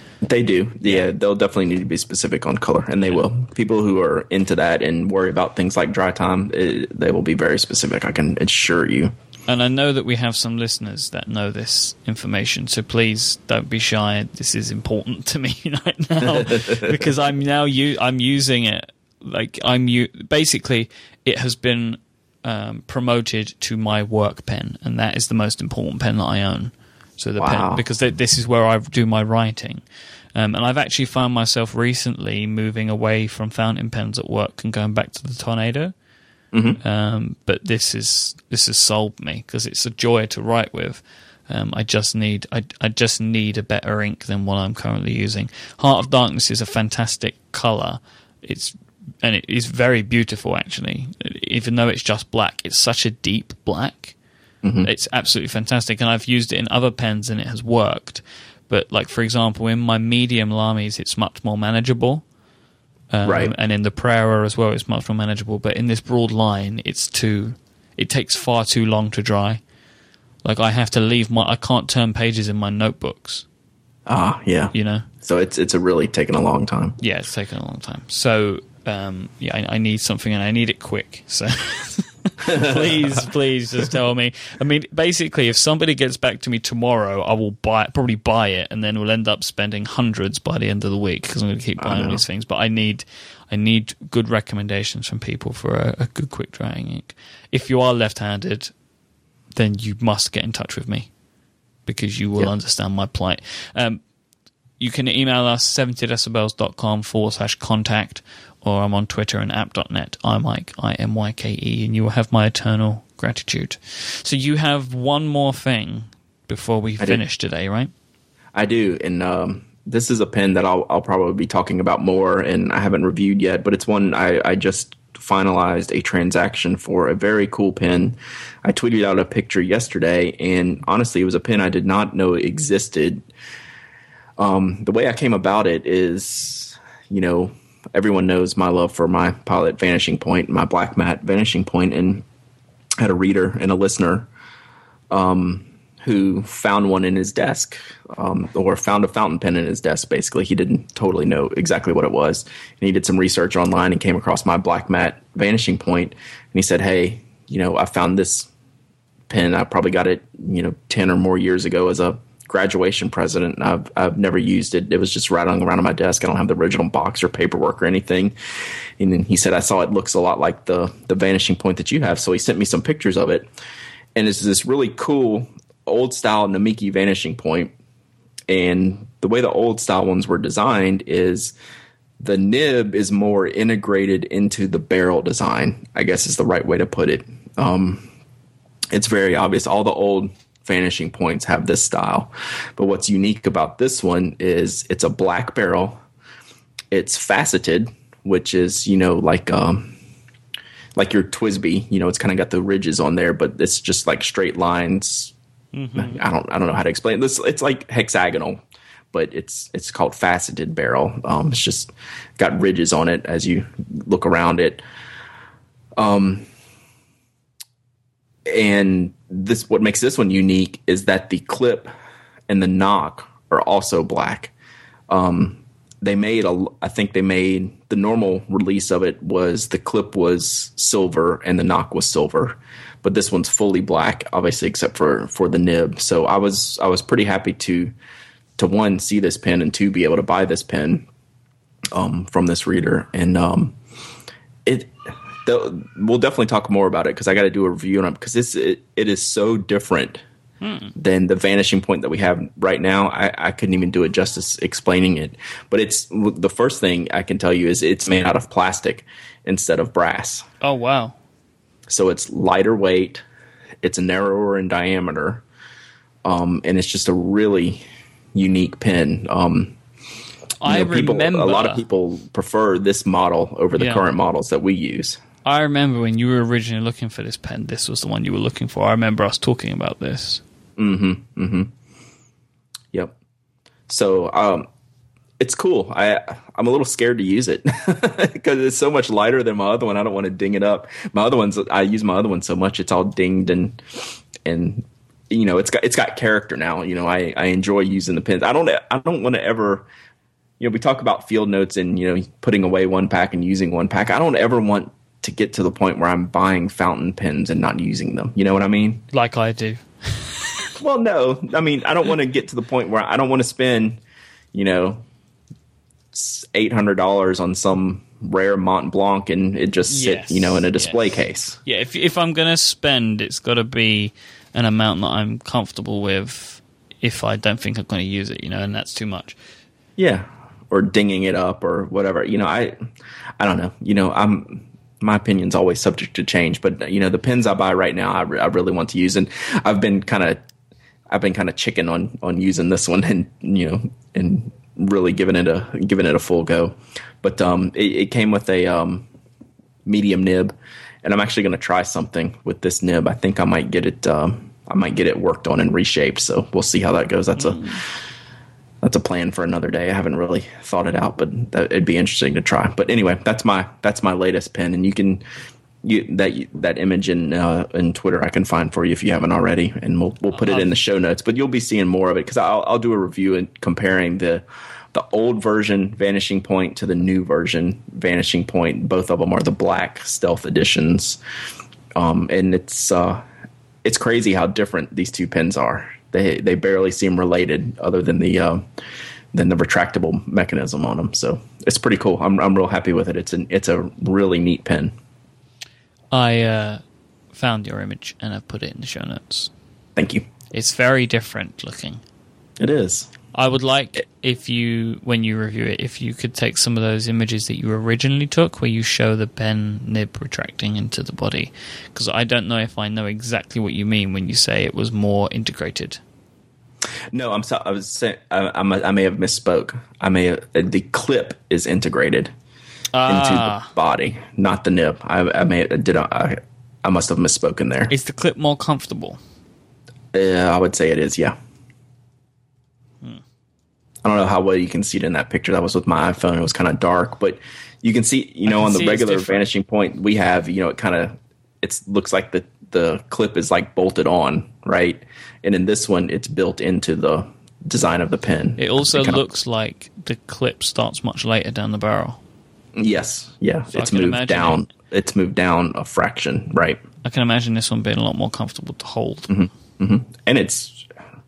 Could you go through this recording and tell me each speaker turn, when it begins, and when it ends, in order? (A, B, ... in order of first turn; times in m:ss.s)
0:00.2-0:09.1 A
0:09.5-0:29.8 B
0:16.3-0:17.0 A
0:27.4-0:27.8 A
0:30.4-0:35.9 B
0:36.5-0:36.8 A
0:36.8-0:54.2 B
0:54.6-0:54.9 A
0:54.8-1:02.2 B
1:03.1-1:09.6 B
1:03.2-1:03.5 A
1:10.4-1:13.4 B
1:14.1-1:17.0 A
1:14.7-1:15.1 B
1:17.0-1:38.7 B
1:22.5-1:23.0 A
1:31.8-1:32.2 A
1:39.5-1:41.1 B
1:41.9-1:44.0 B
1:44.8-1:57.9 B
1:58.6-2:13.2 A
2:14.4-2:22.2 A
2:23.0-2:24.3 A
2:25.1-2:38.5 A
2:39.3-2:48.4 A
2:49.0-2:53.5 A
2:54.2-2:57.7 A
2:58.5-3:01.5 A
3:02.2-3:08.1 A
3:08.9-3:16.0 A
3:16.9-3:20.0 A
3:21.0-3:25.3 A
3:25.7-3:26.2 B
3:26.0-3:28.6 A
3:29.1-3:34.8 A
3:36.0-3:36.5 A
3:38.5-3:41.9 A
3:42.5-3:44.5 A
3:45.1-3:57.9 A
3:58.6-4:01.1 A
4:01.9-4:03.8 A
4:04.6-4:10.2 A
4:10.6-4:10.9 B
4:11.0-4:20.4 A
4:20.6-4:21.2 B
4:21.9-4:23.2 A
4:23.8-4:25.4 A
4:26.2-4:27.8 A
4:28.3-4:29.8 A
4:30.6-4:31.8 B
4:30.6-4:35.2 A
4:33.8-4:34.0 B
4:35.4-4:40.4 B
4:40.8-4:41.7 A
4:43.9-4:44.7 A
4:45.4-4:53.8 A
4:54.4-4:59.9 A
5:00.6-5:09.0 A
5:09.1-5:10.7 B
5:10.8-5:14.0 A
5:14.5-5:15.0 A
5:16.1-5:21.6 A
5:19.9-5:21.0 B
5:21.6-5:29.4 B
5:30.0-5:32.8 A
5:33.4-5:40.4 A
5:41.1-5:49.1 A
5:49.8-5:57.7 A
5:57.4-5:57.8 B
5:58.8-6:05.2 A
6:05.8-6:21.2 A
6:10.3-6:10.8 B
6:22.0-6:23.2 A
6:23.8-6:28.6 A
6:29.3-6:34.9 A
6:36.1-6:36.8 B
6:37.3-6:39.5 B
6:40.0-6:40.3 A
6:40.5-6:42.0 B
6:42.6-6:43.1 A
6:43.3-6:56.0 B
6:57.1-7:02.3 A
7:02.9-7:03.7 B
7:03.1-7:07.9 A
7:07.9-7:09.2 B
7:10.1-7:11.4 A
7:14.0-7:29.2 A
7:18.5-7:19.5 B
7:28.6-7:32.2 B
7:32.8-7:36.8 A
7:33.7-7:34.7 B
7:37.0-7:39.3 B
7:39.3-7:40.9 A